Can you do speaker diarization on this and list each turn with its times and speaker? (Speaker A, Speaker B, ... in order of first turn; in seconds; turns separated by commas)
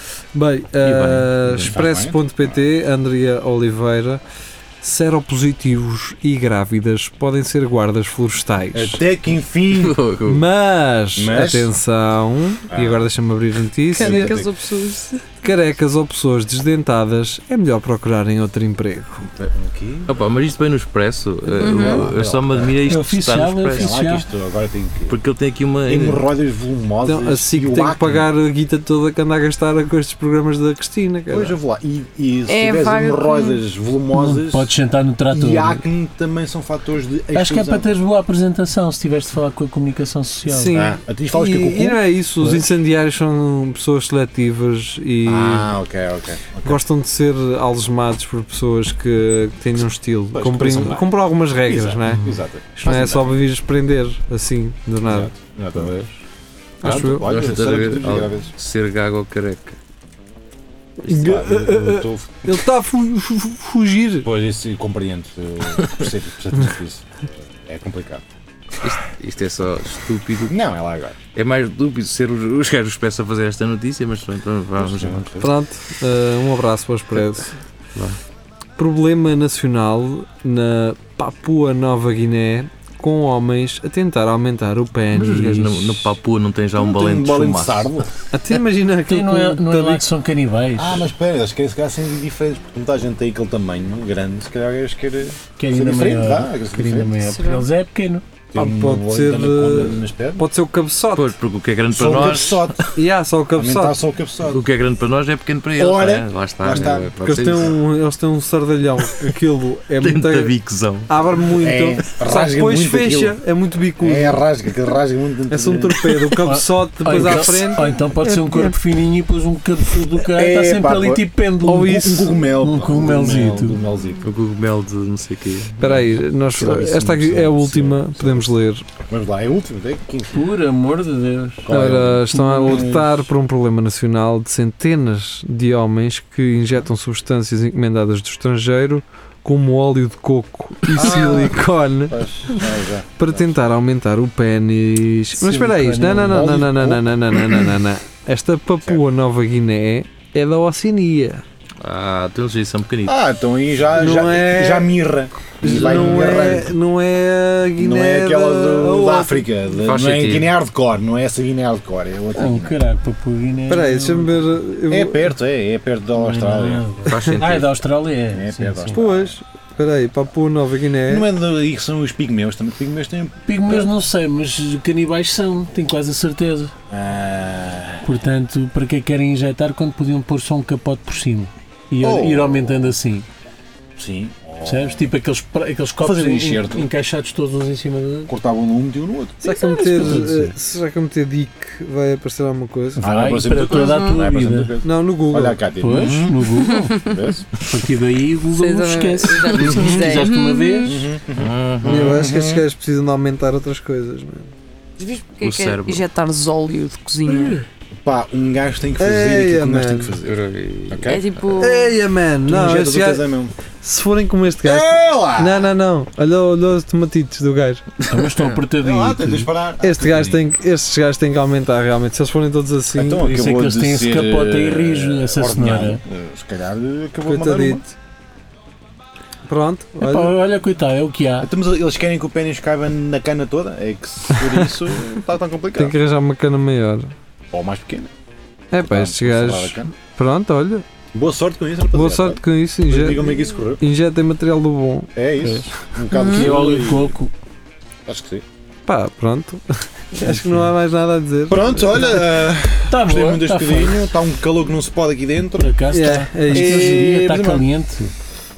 Speaker A: 0.3-4.2, Speaker B: 0.9-1.7, Speaker C: 1.5-2.2, Speaker A: 4.8-9.0, Speaker C: 8.7-10.0, Speaker B: 9.7-10.4, Speaker A: 10.3-14.4, Speaker C: 11.2-11.7, Speaker C: 12.7-13.1, Speaker D: 13.9-15.2, Speaker C: 14.0-14.5, Speaker A: 15.4-19.3, Speaker C: 19.4-20.1, Speaker B: 20.1-23.9, Speaker D: 21.6-22.1, Speaker C: 21.6-22.8, Speaker E: 22.9-24.3, Speaker C: 23.7-25.2, Speaker B: 25.1-26.2, Speaker C: 25.9-28.3, Speaker A: 27.0-31.6, Speaker C: 31.3-34.7, Speaker D: 32.5-33.6, Speaker E: 34.1-35.8, Speaker C: 35.3-37.9, Speaker E: 37.4-40.9, Speaker A: 40.5-45.8, Speaker C: 40.7-42.0, Speaker C: 45.2-46.8, Speaker A: 46.6-55.3, Speaker C: 50.3-53.4, Speaker C: 55.1-56.1, Speaker C: 56.8-58.5, Speaker A: 56.8-57.3, Speaker B: 57.0-59.8, Speaker A: 61.0-64.3, Speaker C: 61.1-62.6, Speaker C: 64.2-68.2, Speaker B: 68.8-70.6, Speaker C: 70.5-71.2, Speaker B: 71.3-75.4, Speaker C: 74.8-75.5, Speaker A: 75.4-77.5, Speaker A: 78.8-86.1, Speaker B: 85.1-87.9, Speaker C: 86.8-88.1, Speaker A: 88.3-90.0, Speaker E: 89.1-91.0, Speaker C: 90.8-97.4, Speaker E: 95.6-98.2, Speaker D: 97.3-97.7, Speaker C: 98.5-100.5, Speaker A: 98.5-101.3, Speaker B: 101.1-102.8, Speaker C: 101.9-102.9, Speaker A: 102.9-104.0, Speaker C: 103.5-104.6, Speaker B: 104.5-107.8, Speaker C: 105.8-107.1, Speaker A: 107.2-110.5, Speaker B: 110.0-111.1, Speaker A: 111.1-114.4, Speaker C: 111.6-113.4, Speaker C: 114.0-116.3, Speaker A: 115.5-118.8, Speaker E: 116.4-123.8, Speaker C: 120.2-124.3, Speaker A: 121.7-122.4, Speaker B: 124.2-125.8, Speaker A: 125.8-128.8, Speaker C: 126.5-128.6, Speaker C: 129.1-130.5, Speaker E: 130.3-131.7, Speaker C: 131.6-133.0, Speaker A: 131.7-142.6, Speaker E: 132.3-133.2, Speaker C: 140.9-141.6, Speaker C: 142.1-143.5, Speaker A: 143.2-151.4, Speaker E: 145.4-146.6, Speaker C: 146.3-147.6, Speaker B: 151.8-153.2, Speaker C: 153.1-156.7, Speaker A: 154.0-155.0, Speaker A: 155.6-159.5, Speaker E: 155.8-156.6, Speaker C: 157.8-162.8, Speaker B: 159.8-160.5, Speaker E: 162.3-164.5, Speaker A: 163.7-165.3, Speaker C: 164.9-166.8, Speaker E: 166.2-169.0, Speaker B: 167.1-167.7, Speaker C: 168.3-169.3, Speaker A: 168.9-171.3, Speaker C: 171.1-173.9, Speaker E: 173.5-176.7, Speaker C: 176.9-178.1, Speaker E: 178.0-183.3, Speaker C: 182.0-182.9, Speaker C: 184.0-185.1, Speaker E: 184.6-188.3, Speaker C: 186.0-186.9, Speaker C: 188.3-189.4, Speaker A: 189.4-193.1, Speaker E: 189.5-190.5, Speaker E: 193.0-194.7, Speaker C: 193.0-196.3, Speaker D: 193.7-194.2, Speaker A: 194.8-195.6, Speaker E: 195.8-196.9, Speaker B: 195.9-196.6, Speaker D: 196.6-197.2, Speaker C: 196.9-197.5, Speaker E: 197.6-201.0, Speaker D: 198.6-200.9, Speaker C: 199.5-200.3, Speaker C: 200.8-202.6, Speaker B: 201.4-202.2, Speaker A: 201.9-204.5, Speaker D: 205.0-207.6, Speaker B: 205.4-206.1, Speaker C: 208.1-210.4, Speaker A: 209.0-210.2, Speaker B: 210.2-211.5, Speaker C: 210.9-211.2, Speaker D: 211.1-211.9, Speaker A: 211.6-213.3, Speaker C: 212.4-213.5, Speaker A: 213.8-217.9, Speaker C: 214.6-215.7, Speaker E: 218.1-219.5, Speaker C: 218.8-220.4, Speaker A: 219.8-223.3, Speaker C: 222.9-227.8, Speaker E: 223.2-226.0, Speaker A: 227.2-227.9, Speaker A: 229.5-230.3, Speaker E: 230.0-231.5, Speaker C: 231.4-236.0, Speaker A: 234.4-234.7, Speaker A: 235.8-237.1, Speaker C: 237.5-238.1, Speaker A: 238.7-240.8, Speaker C: 238.8-239.9, Speaker C: 241.1-243.8, Speaker A: 241.9-245.1, Speaker C: 245.2-247.2, Speaker E: 245.4-247.3, Speaker D: 246.1-246.6, Speaker C: 248.1-248.4, Speaker A: 248.9-252.2, Speaker E: 250.2-250.7, Speaker C: 251.5-257.7, Speaker E: 252.9-254.0, Speaker E: 255.6-258.1, Speaker A: 255.9-257.4